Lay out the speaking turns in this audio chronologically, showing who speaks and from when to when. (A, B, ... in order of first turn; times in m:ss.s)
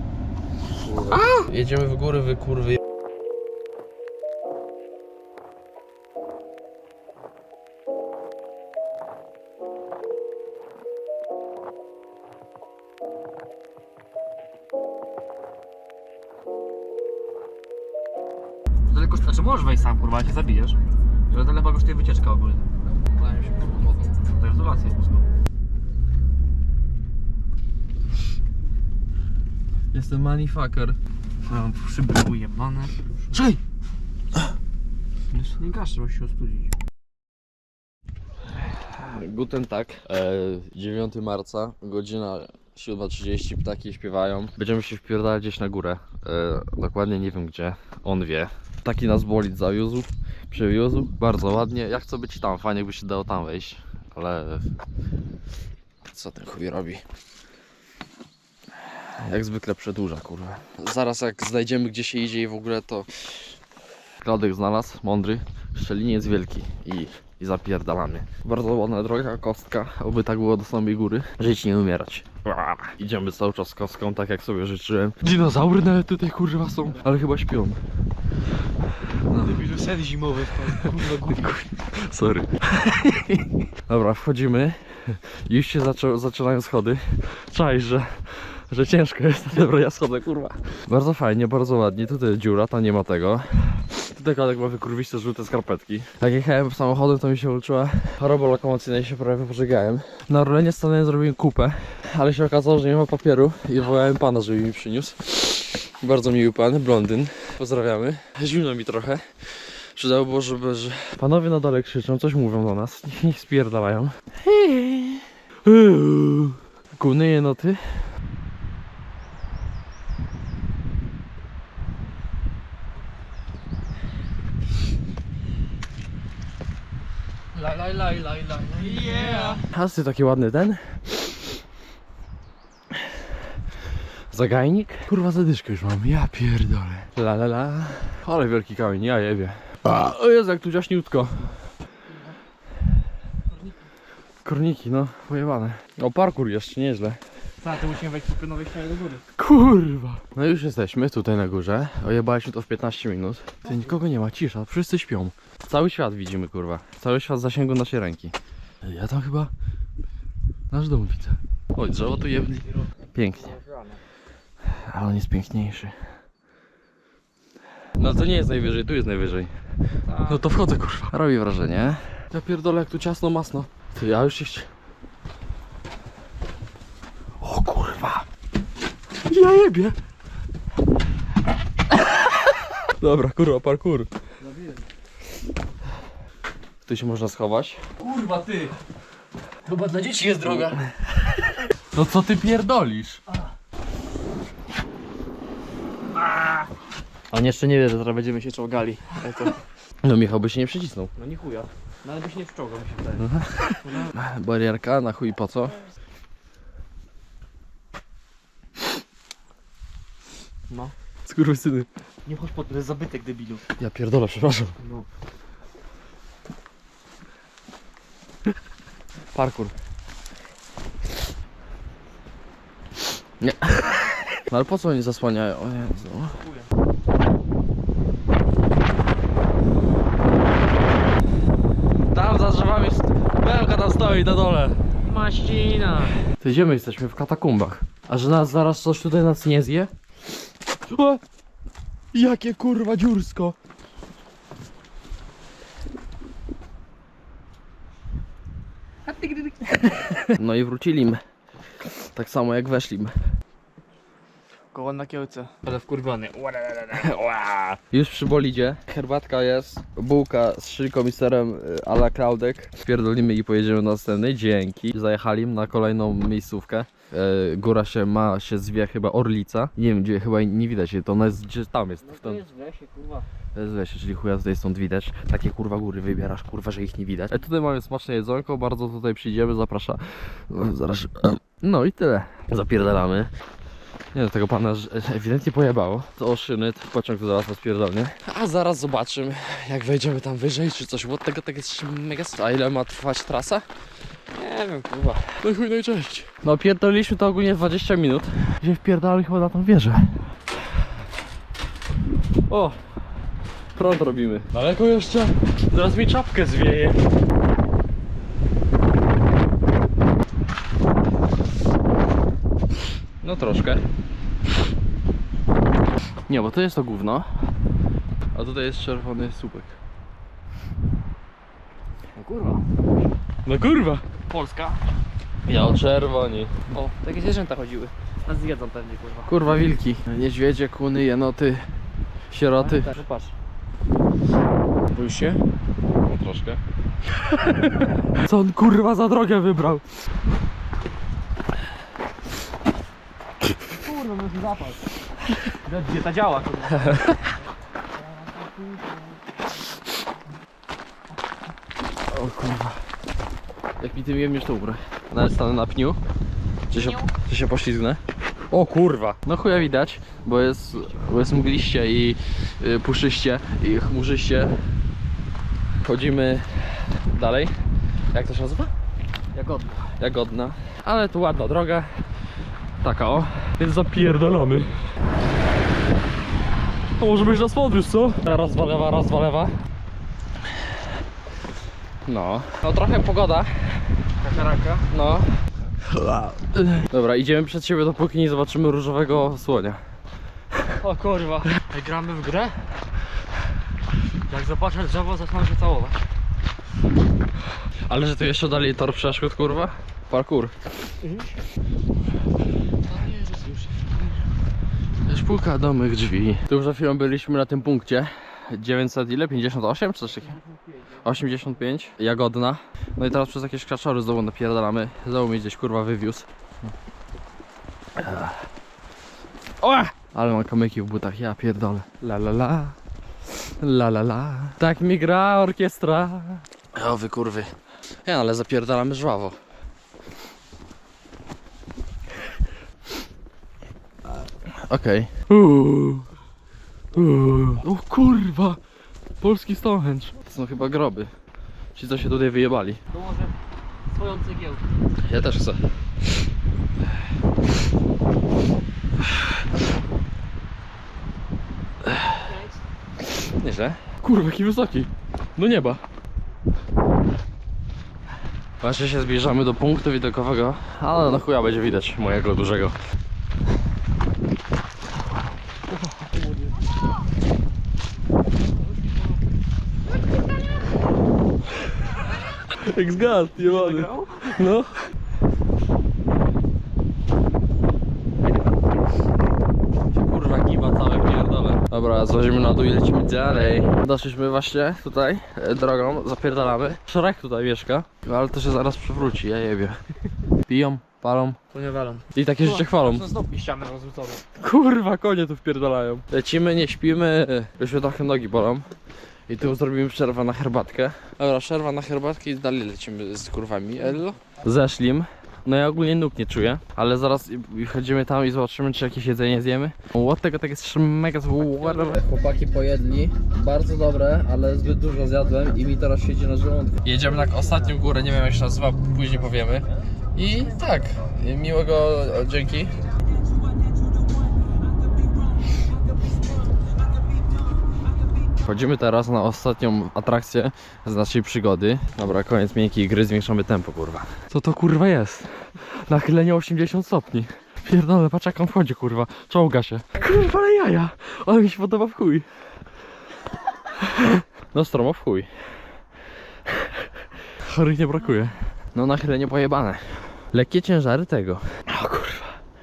0:00.8-0:02.8 A
0:18.9-0:20.8 B
0:21.3-0:22.7 B
0:23.2-0:23.8 A
0:23.6-0:25.3 B
0:29.9-0:31.0 A
0:31.5-0:33.6 B
0:35.3-0:36.7 B
0:38.6-0:54.7 A
0:56.1-0:57.0 A
0:58.9-1:03.5 A
1:04.2-1:17.8 A
1:19.3-1:19.7 A
1:19.4-1:21.5 B
1:20.6-1:58.1 A
2:07.6-2:09.6 B
2:09.6-2:11.4 A
2:14.3-2:21.5 A
2:24.4-2:27.2 A
2:27.6-2:29.2 B
2:29.4-2:39.5 A
2:40.7-2:43.6 A
2:43.5-2:44.0 B
2:44.7-2:45.9 A
2:48.0-2:49.5 A
2:50.1-2:50.4 B
2:50.2-2:54.7 A
2:57.4-2:58.3 A
2:59.2-3:00.0 A
3:02.8-3:04.1 A
3:06.8-3:07.8 A
3:08.0-3:08.7 B
3:09.7-3:10.9 B
3:11.8-3:13.2 A
3:17.3-3:19.6 B
3:20.0-3:21.1 A
3:21.2-3:23.2 B
3:23.2-3:25.8 A
3:23.8-3:24.1 B
3:31.3-3:31.9 A
3:32.3-3:33.6 B
3:33.8-3:34.8 A
3:34.8-3:35.1 B
3:39.3-3:39.7 A
3:43.4-3:46.4 A
3:46.3-3:46.6 B
3:52.1-3:54.8 A
3:55.0-3:56.2 B
3:56.4-3:59.9 A
4:00.9-4:01.2 A
4:02.1-4:03.6 A
4:09.6-4:11.2 A
4:11.8-4:13.2 A
4:14.7-4:17.1 B
4:17.1-4:32.4 A
4:32.0-4:33.3 B
4:33.6-4:43.3 A
4:44.1-4:53.6 A
4:54.3-4:55.2 B
4:55.3-5:00.2 A
5:02.5-5:02.9 A
5:03.8-5:07.0 A
5:13.2-5:13.8 A
5:16.3-5:17.3 A
5:18.3-5:19.8 A
5:22.2-5:22.6 B
5:23.5-5:24.0 A
5:24.3-5:24.8 B
5:25.5-5:26.5 A
5:26.7-5:29.6 B
5:29.3-5:31.7 A
5:32.3-5:32.9 A
5:32.5-5:33.3 B
5:34.9-5:35.4 B
5:36.1-5:36.6 A
5:37.2-5:39.8 A
5:43.7-5:44.8 B
5:45.6-5:47.1 B
5:46.8-5:47.2 A
5:48.4-5:49.0 B
5:52.1-5:52.8 A
5:53.8-5:56.0 A
5:56.7-6:04.6 A
6:05.8-6:07.6 A
6:08.1-6:08.7 A
6:09.3-6:09.9 B
6:10.0-6:11.9 A
6:12.8-6:14.8 A
6:17.0-6:19.5 A
6:22.1-6:23.9 A
6:24.2-6:24.9 B
6:24.9-6:29.8 A
6:30.8-6:32.7 B
6:34.3-6:36.0 B
6:37.9-6:40.5 A
6:41.0-6:41.3 B
6:43.0-6:43.8 B
6:45.1-6:50.4 A
6:50.9-6:56.3 A
6:58.0-6:58.5 A
6:59.6-7:02.8 A
7:03.3-7:07.5 A
7:08.0-7:09.4 A
7:14.1-7:16.1 A
7:16.9-7:18.6 A
7:19.2-7:21.1 A
7:21.8-7:22.8 A
7:22.9-7:23.3 B
7:23.9-7:24.7 B
7:25.0-7:25.6 A
7:31.8-7:32.4 A
7:33.2-7:35.8 A
7:38.6-7:42.8 A
7:52.2-7:54.9 A
7:53.4-7:54.4 B
7:59.9-8:09.8 A
8:10.5-8:11.4 A
8:11.5-8:14.2 B
8:12.2-8:13.1 A
8:14.4-8:18.7 A
8:19.3-8:42.9 A
8:48.4-9:02.3 A
9:03.7-9:05.3 A
9:06.4-9:12.4 A